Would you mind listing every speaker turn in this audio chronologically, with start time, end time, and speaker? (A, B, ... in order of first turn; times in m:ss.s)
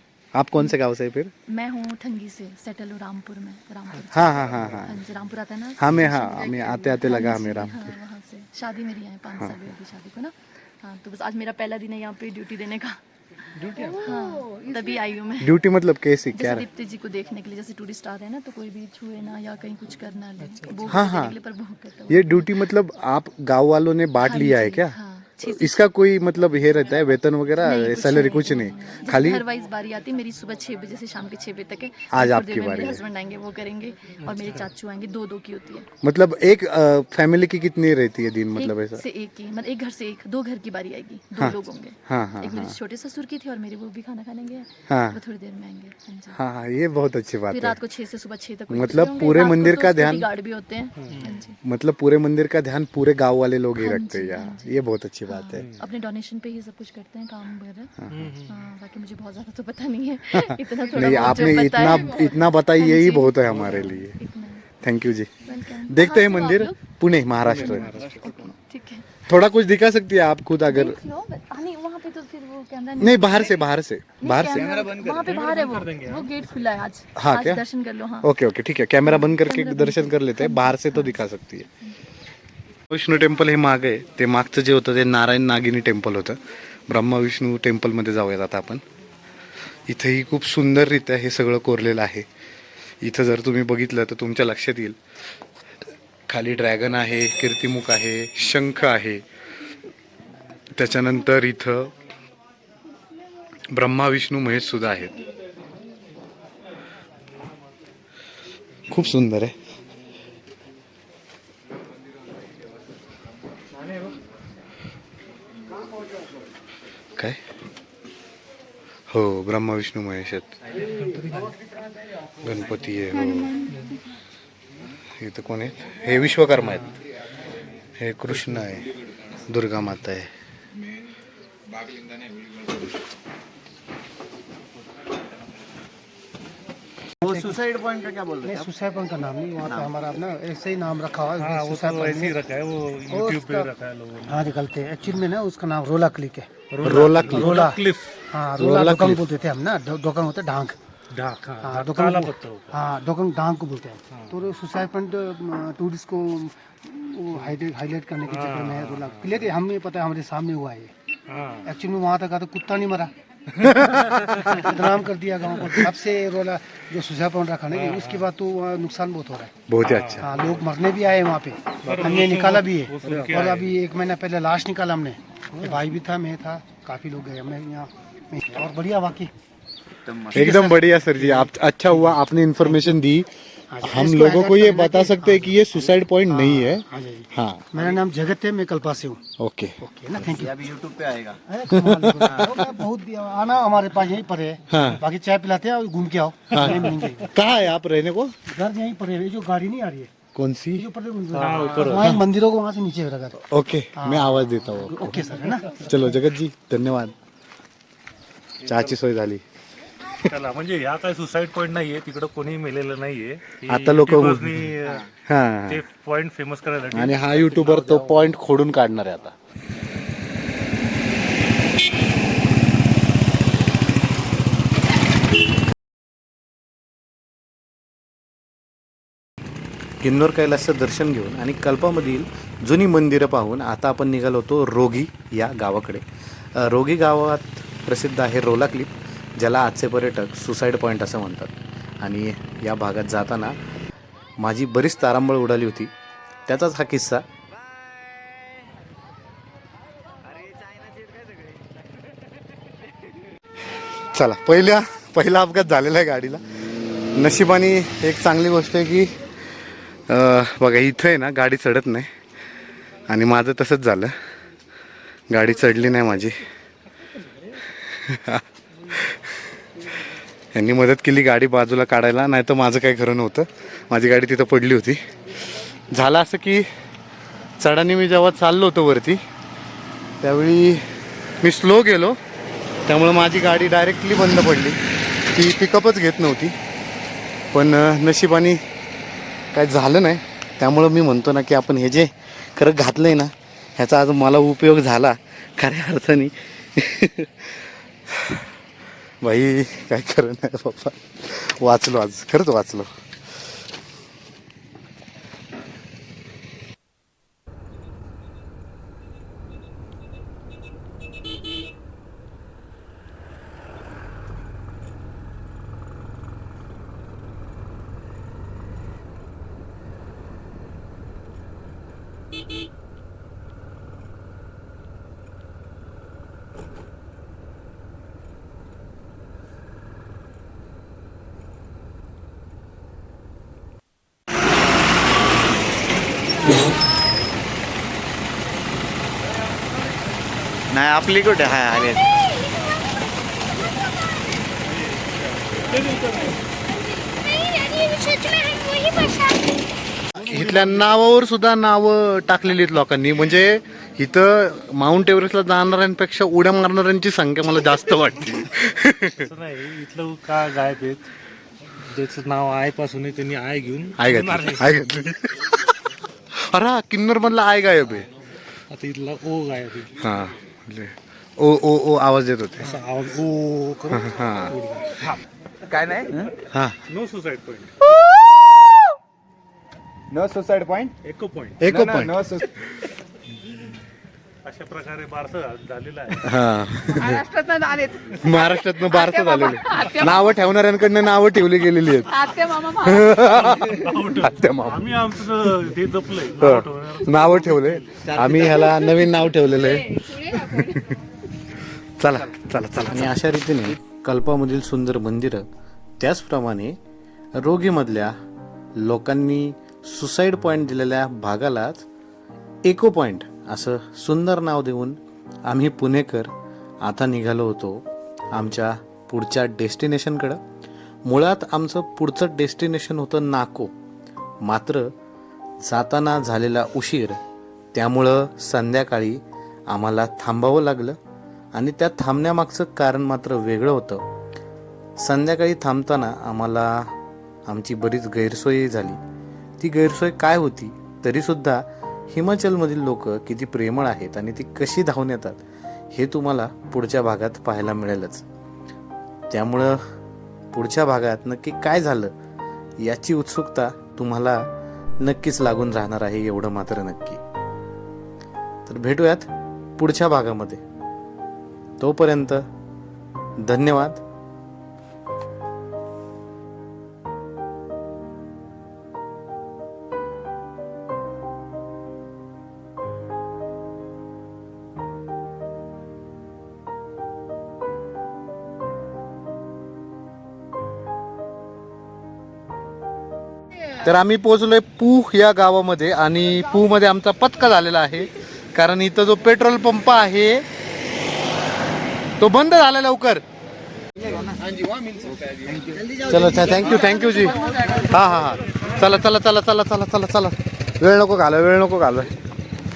0:00.3-0:01.3 A
0:01.5-0:15.6 B
0:04.1-0:05.0 A
0:05.8-0:07.9 A
0:13.6-0:14.1 C
0:15.4-0:16.6 A
0:16.3-0:22.7 B
0:20.9-0:21.3 A
0:22.1-0:29.4 A
0:24.2-0:25.8 B
0:27.6-0:35.9 B
0:32.1-0:33.0 A
0:34.2-0:34.6 C
0:36.0-0:39.0 A
0:38.5-0:46.4 B
0:41.4-0:42.8 A
0:44.9-0:45.2 A
0:46.3-0:47.8 A
0:47.5-0:51.6 B
0:48.7-0:50.2 A
0:51.0-0:51.4 C
0:51.6-0:55.6 A
0:53.8-0:57.9 B
0:55.5-0:55.8 C
0:58.0-0:58.4 A
0:58.1-0:58.6 C
0:58.4-1:04.6 B
1:00.3-1:04.2 A
1:03.5-1:03.9 C
1:04.8-1:05.3 A
1:05.4-1:06.8 B
1:05.9-1:08.0 A
1:07.4-1:08.5 C
1:07.4-1:09.1 B
1:09.3-1:11.0 A
1:10.6-1:13.7 B
1:13.0-1:14.8 A
1:14.2-1:18.3 B
1:14.6-1:16.3 C
1:17.2-1:17.6 A
1:18.2-1:21.7 A
1:19.0-1:21.2 B
1:22.9-1:28.8 A
1:29.9-1:32.3 A
1:33.0-1:35.0 A
1:36.3-1:39.2 A
1:40.7-1:41.9 A
1:43.7-1:45.1 A
1:48.9-1:49.6 A
1:59.1-2:00.6 A
2:00.9-2:01.6 C
2:02.4-2:03.7 A
2:03.7-2:04.0 C
2:05.2-2:07.0 A
2:08.0-2:10.3 A
2:17.2-2:17.6 D
2:17.2-2:18.7 E
2:18.4-2:22.4 D
2:19.6-2:19.9 E
2:21.4-2:24.4 C
2:23.1-2:23.7 D
2:24.2-2:26.5 D
2:26.7-2:28.2 C
2:26.8-2:27.6 A
2:27.3-2:30.8 D
2:28.6-2:29.2 A
2:31.1-2:32.7 C
2:31.6-2:40.9 D
2:34.1-2:34.4 C
2:38.2-2:39.5 C
2:41.3-2:41.7 C
2:41.6-2:43.1 D
2:43.7-2:44.3 A
2:44.0-2:44.4 C
2:44.3-2:49.5 D
2:47.7-2:48.3 C
2:49.7-2:50.3 A
2:49.8-2:50.4 C
2:50.2-2:59.3 D
2:51.8-2:53.8 C
3:00.1-3:00.7 E
3:00.3-3:01.5 D
3:00.3-3:03.3 A
3:03.7-3:05.6 D
3:03.8-3:07.7 A
3:06.3-3:09.2 D
3:09.4-3:09.8 A
3:09.8-3:10.5 D
3:10.2-3:11.4 E
3:11.5-3:17.3 D
3:11.7-3:12.6 A
3:14.7-3:15.0 A
3:16.5-3:18.3 A
3:18.5-3:20.1 D
3:20.3-3:20.8 A
3:20.7-3:23.4 D
3:21.3-3:22.2 C
3:21.6-3:22.2 A
3:23.4-3:25.2 A
3:24.0-3:26.1 D
3:25.8-3:27.1 A
3:28.6-3:29.4 A
3:30.2-3:35.1 C
3:33.6-3:34.7 A
3:35.3-3:35.8 A
3:35.7-3:38.3 C
3:36.9-3:39.3 A
3:50.0-4:03.6 A
4:04.4-4:05.9 A
4:06.5-4:07.2 A
4:10.2-4:11.6 E
4:14.0-4:16.4 A
4:17.1-4:19.2 A
4:20.1-4:22.1 A
4:23.1-4:24.2 A
4:25.3-4:26.4 A
4:27.8-4:29.5 A
4:30.5-4:36.7 A
4:37.6-4:39.2 A
4:40.2-4:40.9 A
4:41.4-4:42.2 A
4:42.8-4:46.6 A
4:47.5-4:48.6 A
4:49.5-4:58.4 A
4:59.2-5:02.9 A
5:40.7-5:42.0 E
5:45.5-5:46.4 C
5:50.1-5:59.2 A
5:50.2-5:50.9 C
5:59.2-6:01.1 C
6:01.8-6:04.7 C
6:04.0-6:05.6 A
6:06.4-6:08.1 A
6:08.7-6:10.0 C
6:10.0-6:12.7 A
6:12.6-6:15.2 C
6:13.9-6:14.6 A
6:15.7-6:16.3 E
6:16.5-6:16.8 A
6:16.9-6:18.0 C
6:20.1-6:21.0 E
6:21.0-6:21.7 C
6:21.6-6:22.2 A
6:21.6-6:22.5 E
6:24.4-6:26.3 C
6:26.2-6:27.2 A
6:26.9-6:30.4 F
6:28.2-6:32.2 A
6:32.1-6:33.2 F
6:32.8-6:35.3 A
6:33.3-6:38.0 C
6:36.4-6:40.9 A
6:38.0-6:38.8 E
6:39.0-6:41.0 F
6:42.0-6:45.4 A
6:46.0-6:46.8 A
6:47.3-6:48.2 A
6:48.8-6:51.8 A
6:52.6-7:00.4 A
7:01.0-7:03.7 A
7:04.4-7:04.9 A
7:05.6-7:07.2 A
7:07.7-7:11.0 A
7:11.5-7:14.0 A
7:15.0-7:16.9 A
7:17.4-7:19.0 A
7:19.6-7:25.4 A
7:25.9-7:28.2 A
7:29.3-7:29.8 A
7:30.5-7:32.1 A
7:32.8-7:34.5 A
7:35.0-7:37.2 A
7:38.7-7:40.6 A
7:41.8-7:42.4 A
7:43.4-7:44.0 A
8:03.8-8:10.4 A
8:12.2-8:13.2 A
8:14.0-8:17.8 E
8:16.1-8:22.1 A
8:17.5-8:17.8 F